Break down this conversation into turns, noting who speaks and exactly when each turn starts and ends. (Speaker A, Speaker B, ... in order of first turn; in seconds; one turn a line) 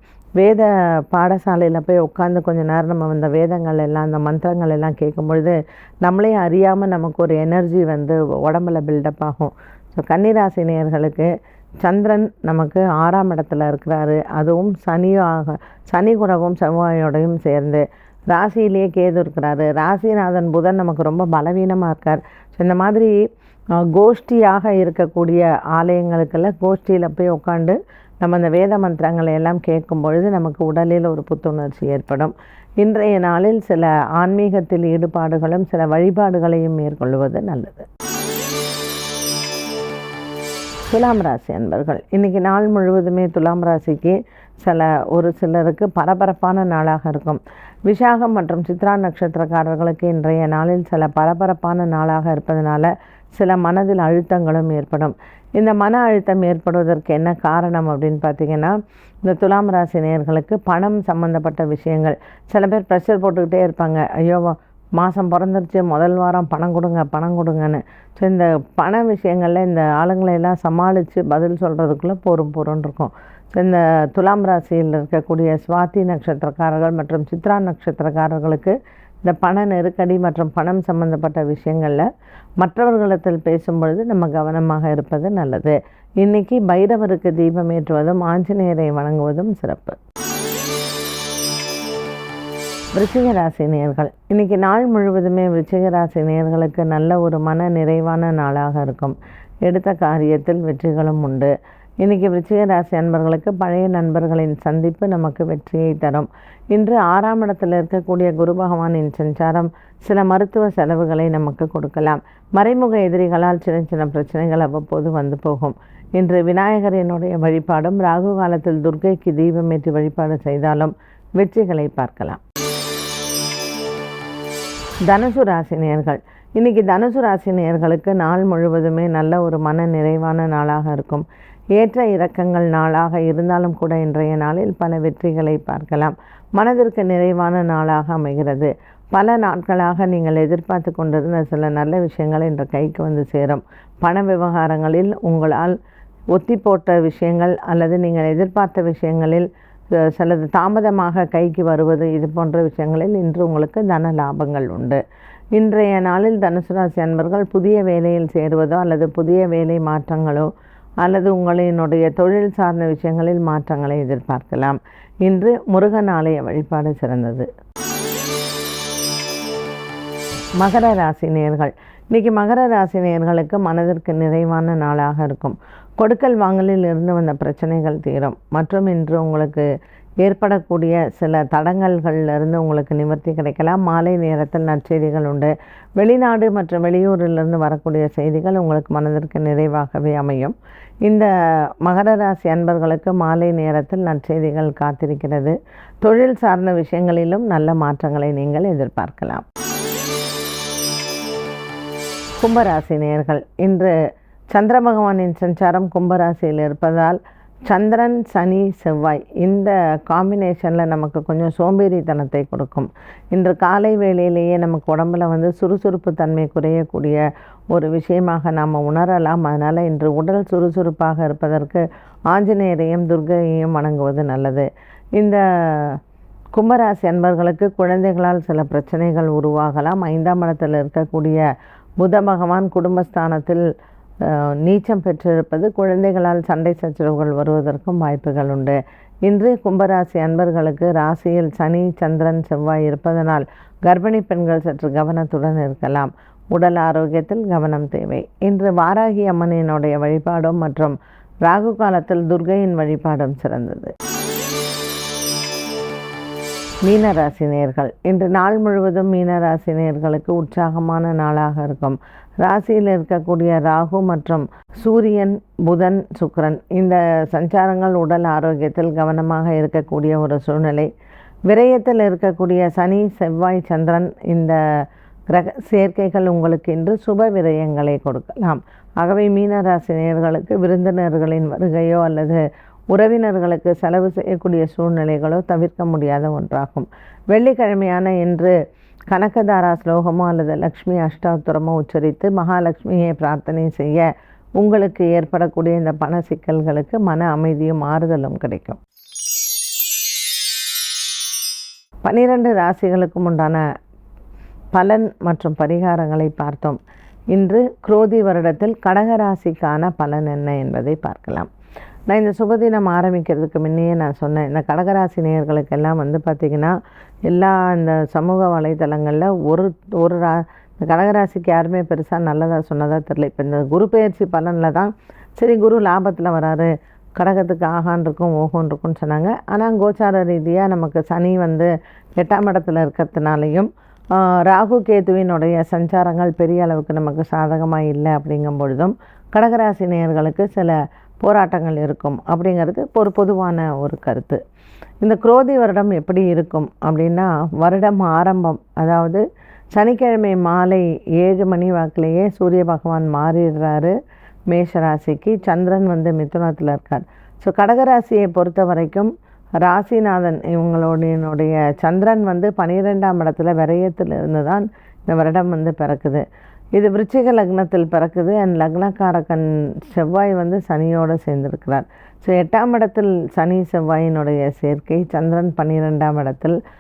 Speaker A: 0.4-11.3
Speaker A: 11.8-23.2
Speaker A: 23.8-37.9
Speaker A: 40.9-82.1
Speaker A: 82.6-90.0
Speaker A: 92.9-122.4
Speaker A: 125.1-145.8
Speaker A: 146.3-155.0
Speaker A: 155.6-160.5
Speaker A: 161.0-167.5
Speaker A: 170.6-179.7
Speaker A: 180.2-191.3
Speaker A: 191.8-199.4
Speaker A: 202.4-203.9
Speaker A: 204.5-226.0
Speaker A: 226.5-231.5
Speaker A: 232.0-233.6
Speaker A: 234.2-253.9
Speaker A: 256.8-270.9
Speaker A: 271.5-274.6
Speaker A: 275.3-288.5
Speaker A: 289.1-298.8
Speaker A: 302.0-303.6
Speaker A: 304.7-306.8
Speaker A: 307.3-311.5
Speaker A: 312.1-316.8
Speaker A: 317.3-344.4
Speaker A: 345.0-349.2
Speaker A: 349.7-353.9
Speaker A: 354.5-359.1
Speaker A: 359.6-376.6